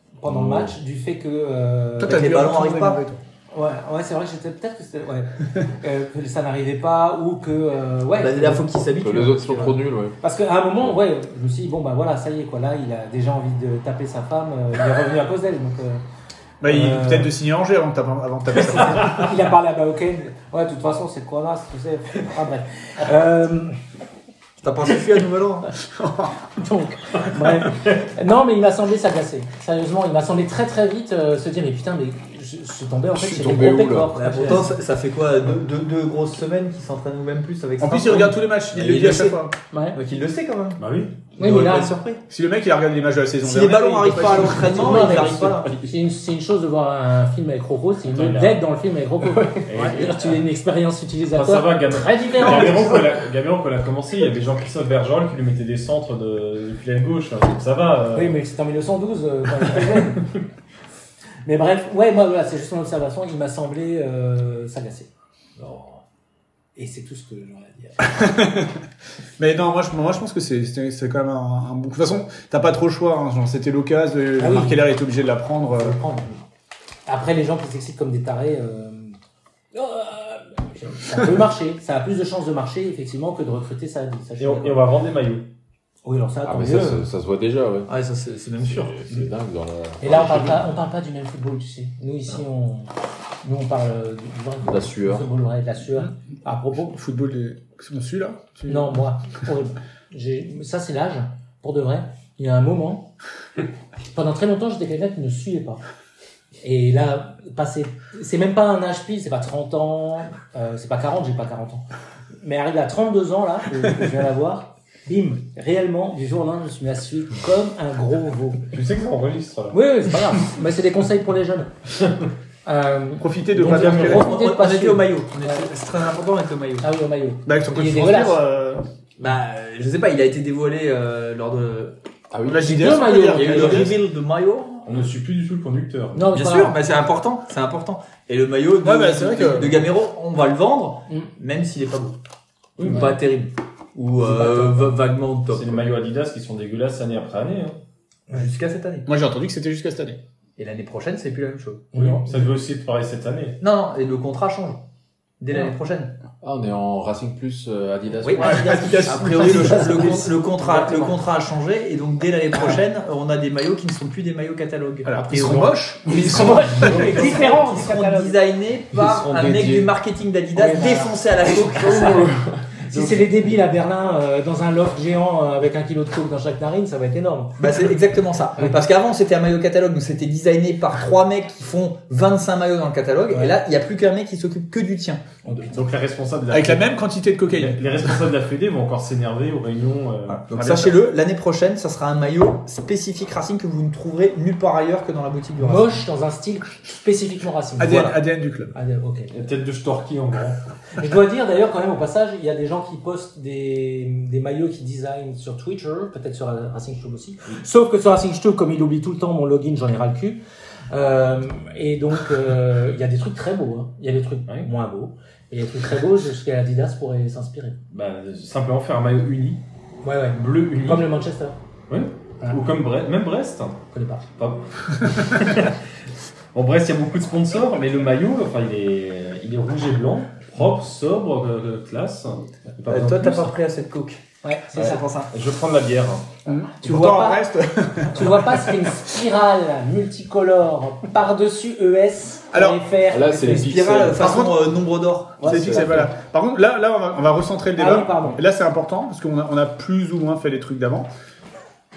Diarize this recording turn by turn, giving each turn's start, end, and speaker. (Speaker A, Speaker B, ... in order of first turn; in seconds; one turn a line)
Speaker A: 0.2-2.6
Speaker B: 0.3-0.7
Speaker C: 2.0-3.2
Speaker D: 2.0-3.0
Speaker A: 3.5-8.7
Speaker D: 8.2-9.8
Speaker B: 9.0-10.2
Speaker A: 10.2-16.0
Speaker C: 16.6-19.3
Speaker A: 16.6-17.3
Speaker A: 18.5-23.8
Speaker D: 24.6-25.7
Speaker C: 25.9-26.4
Speaker A: 26.6-34.7
Speaker B: 33.1-34.1
Speaker D: 34.1-40.8
Speaker C: 37.8-39.5
Speaker A: 39.7-40.0
Speaker E: 40.8-41.1
Speaker D: 41.4-42.2
Speaker A: 41.4-42.0
Speaker C: 42.3-45.4
Speaker D: 43.4-45.9
Speaker A: 44.1-53.1
Speaker E: 48.1-48.6
Speaker E: 49.6-50.4
Speaker E: 51.3-58.4
Speaker A: 58.1-60.2
Speaker A: 61.5-65.1
Speaker B: 65.6-66.0
Speaker A: 66.8-68.2
Speaker C: 68.0-68.8
Speaker C: 69.4-76.0
Speaker A: 74.4-74.8
Speaker A: 75.7-76.4
Speaker A: 77.1-79.2
Speaker A: 79.7-84.8
Speaker E: 84.4-85.5
Speaker A: 86.0-87.0
Speaker B: 86.4-87.9
Speaker D: 87.9-88.9
Speaker B: 88.6-90.7
Speaker A: 90.0-92.9
Speaker A: 93.4-97.0
Speaker B: 94.6-95.3
Speaker C: 96.9-99.0
Speaker A: 98.7-103.1
Speaker A: 104.1-105.8
Speaker A: 106.6-111.8
Speaker A: 112.4-118.6
Speaker E: 118.7-119.8
Speaker A: 119.7-121.7
Speaker A: 122.7-125.7
Speaker C: 123.2-124.3
Speaker E: 123.6-124.3
Speaker D: 123.7-126.9
Speaker A: 126.8-128.4
Speaker C: 127.5-128.8
Speaker D: 129.2-131.9
Speaker B: 132.3-133.9
Speaker C: 132.4-133.9
Speaker A: 132.7-133.9
Speaker D: 133.3-134.9
Speaker E: 134.8-136.3
Speaker A: 136.1-136.8
Speaker D: 136.3-142.2
Speaker C: 138.8-139.9
Speaker E: 142.8-143.2
Speaker D: 142.8-145.8
Speaker A: 144.2-144.8
Speaker E: 145.5-147.8
Speaker D: 148.3-149.1
Speaker C: 149.1-150.2
Speaker D: 150.6-151.9
Speaker A: 151.9-152.4
Speaker E: 151.9-153.6
Speaker D: 153.6-154.8
Speaker D: 155.4-156.2
Speaker B: 156.4-158.6
Speaker D: 158.2-172.3
Speaker C: 158.4-160.0
Speaker A: 158.4-161.2
Speaker A: 162.5-162.8
Speaker C: 165.1-167.5
Speaker A: 166.1-168.4
Speaker B: 168.9-169.9
Speaker A: 170.6-172.2
Speaker A: 172.9-177.6
Speaker D: 177.6-185.2
Speaker A: 185.4-185.8
Speaker E: 185.7-186.9
Speaker C: 186.5-188.1
Speaker E: 187.5-190.4
Speaker D: 190.5-196.0
Speaker C: 190.5-191.0
Speaker A: 195.6-198.1
Speaker C: 197.8-198.7
Speaker D: 197.8-198.2
Speaker A: 198.7-199.3
Speaker E: 199.3-200.6
Speaker A: 200.9-217.8
Speaker E: 217.9-219.6
Speaker A: 220.0-221.6
Speaker E: 220.3-221.1
Speaker E: 221.9-223.8
Speaker A: 223.9-224.2
Speaker E: 224.4-225.8
Speaker E: 226.5-233.5
Speaker D: 232.9-234.2
Speaker A: 234.4-235.0
Speaker D: 234.7-235.3
Speaker E: 235.3-236.3
Speaker C: 236.4-238.9
Speaker A: 236.5-237.5
Speaker A: 238.1-244.0
Speaker C: 242.5-242.8
Speaker B: 243.1-244.4
Speaker D: 243.4-245.8
Speaker C: 244.2-244.6
Speaker C: 245.4-251.1
Speaker B: 245.4-246.0
Speaker A: 245.6-246.1
Speaker A: 247.8-248.4